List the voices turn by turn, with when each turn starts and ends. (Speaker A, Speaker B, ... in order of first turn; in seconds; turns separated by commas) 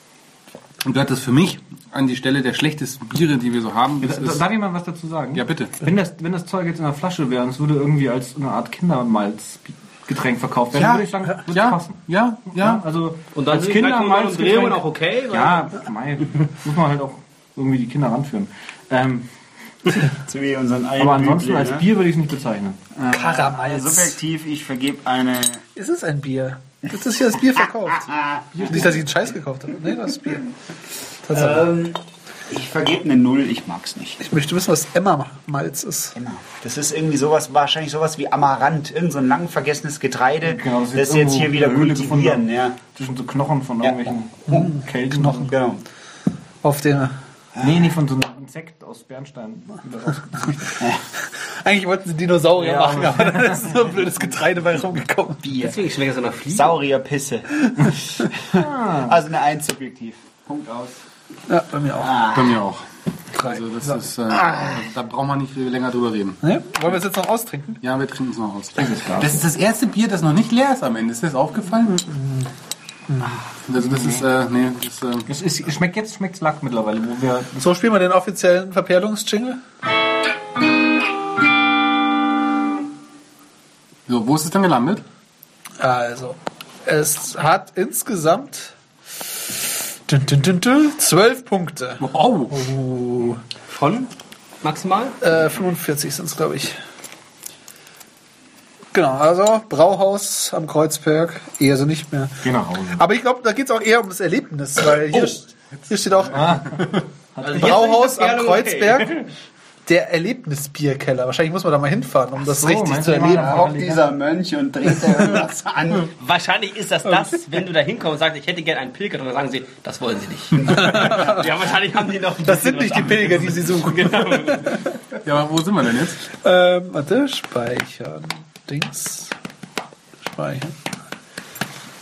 Speaker A: 0.8-4.4, Speaker B: 4.0-12.0, Speaker A: 5.3-5.8, Speaker A: 10.7-12.8, Speaker B: 12.6-19.3, Speaker C: 13.3-15.8, Speaker D: 20.1-21.9, Speaker B: 21.0-22.8, Speaker D: 22.9-25.6, Speaker E: 23.1-24.1, Speaker E: 25.7-30.5, Speaker D: 28.0-29.0, Speaker E: 31.2-31.7, Speaker D: 31.3-34.2, Speaker E: 34.2-36.1, Speaker D: 36.1-42.8, Speaker B: 40.4-45.5, Speaker E: 44.5-45.5, Speaker D: 45.5-45.8, Speaker E: 46.6-47.1, Speaker B: 47.6-50.6, Speaker E: 51.2-55.4, Speaker B: 52.5-54.1, Speaker D: 55.4-55.8, Speaker C: 55.6-56.8, Speaker D: 56.5-61.0, Speaker B: 58.6-59.1, Speaker E: 61.5-62.2, Speaker D: 62.0-62.5, Speaker A: 62.3-66.4, Speaker E: 63.4-64.0, Speaker E: 66.4-67.8, Speaker A: 67.8-72.0, Speaker B: 68.8-69.5, Speaker E: 71.9-72.5, Speaker E: 73.1-73.4, Speaker A: 73.7-75.3, Speaker B: 73.8-74.3, Speaker B: 75.3-77.6, Speaker E: 77.6-79.6, Speaker A: 84.1-85.0, Speaker E: 85.8-88.7, Speaker E: 90.0-93.4, Speaker A: 92.0-92.6, Speaker C: 93.7-95.2, Speaker E: 95.2-96.8, Speaker E: 98.9-106.8, Speaker B: 102.4-103.0, Speaker B: 106.3-106.7, Speaker B: 107.3-107.8, Speaker C: 107.4-109.3, Speaker E: 107.5-109.2, Speaker E: 109.8-114.0, Speaker B: 112.4-114.0, Speaker D: 113.8-116.1, Speaker C: 116.2-124.8, Speaker E: 120.7-121.4, Speaker E: 122.4-124.9, Speaker A: 125.2-126.2, Speaker E: 126.3-129.3, Speaker E: 130.2-130.8